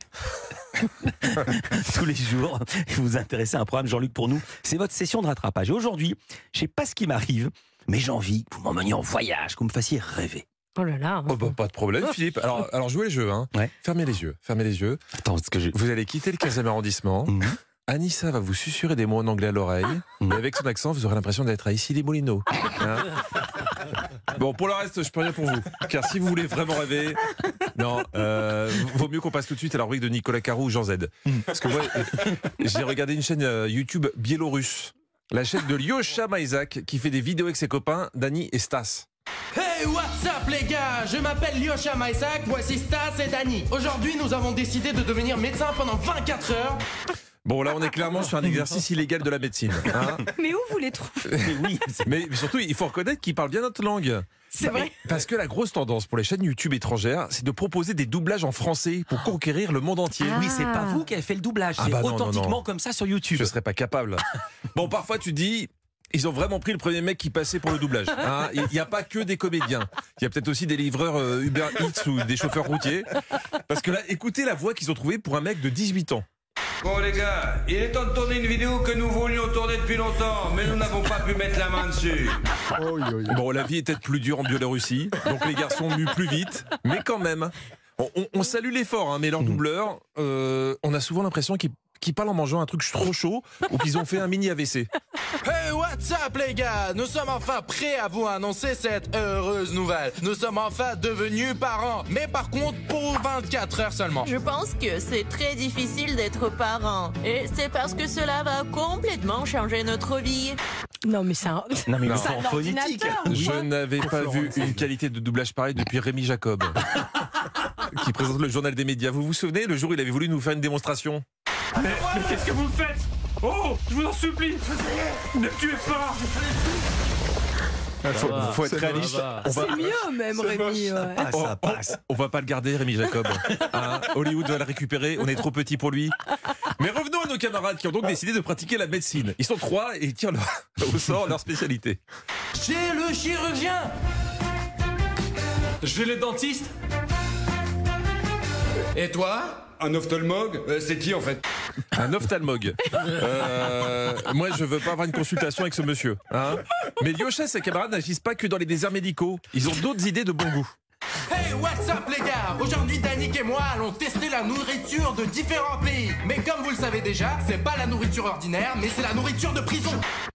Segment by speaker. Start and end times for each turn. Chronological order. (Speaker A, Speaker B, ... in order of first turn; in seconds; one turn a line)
Speaker A: 1.0-10.4
Speaker B: 10.8-11.5
Speaker C: 11.3-15.0
Speaker A: 15.2-15.8
Speaker C: 15.7-17.3
Speaker A: 17.3-17.6
Speaker C: 17.9-23.5
Speaker C: 24.3-39.1
Speaker D: 39.5-46.8
Speaker C: 47.4-50.2
Speaker B: 50.2-51.5
Speaker A: 51.4-52.1
Speaker C: 52.0-54.3
Speaker B: 54.5-55.0
Speaker C: 54.9-60.4
Speaker B: 60.2-61.0
Speaker A: 60.3-63.5
Speaker C: 61.8-62.6
Speaker C: 63.3-73.1
Speaker C: 73.7-76.2
Speaker E: 76.8-82.4
Speaker C: 83.2-94.9
Speaker D: 95.4-104.3
Speaker F: 104.2-110.6
Speaker B: 111.0-113.6
Speaker A: 111.9-114.8
Speaker C: 112.0-112.4
Speaker C: 113.3-116.8
Speaker C: 117.8-121.2
Speaker C: 121.8-122.3
Speaker G: 122.0-124.5
Speaker C: 123.5-124.7
Speaker C: 125.6-125.9
Speaker C: 128.0-129.9
Speaker B: 128.2-131.2
Speaker A: 131.0-132.0
Speaker C: 131.2-142.0
Speaker D: 142.5-143.9
Speaker G: 145.8-146.7
Speaker G: 148.9-149.6
Speaker E: 149.8-151.4
Speaker C: 151.9-160.7
Speaker D: 161.3-170.1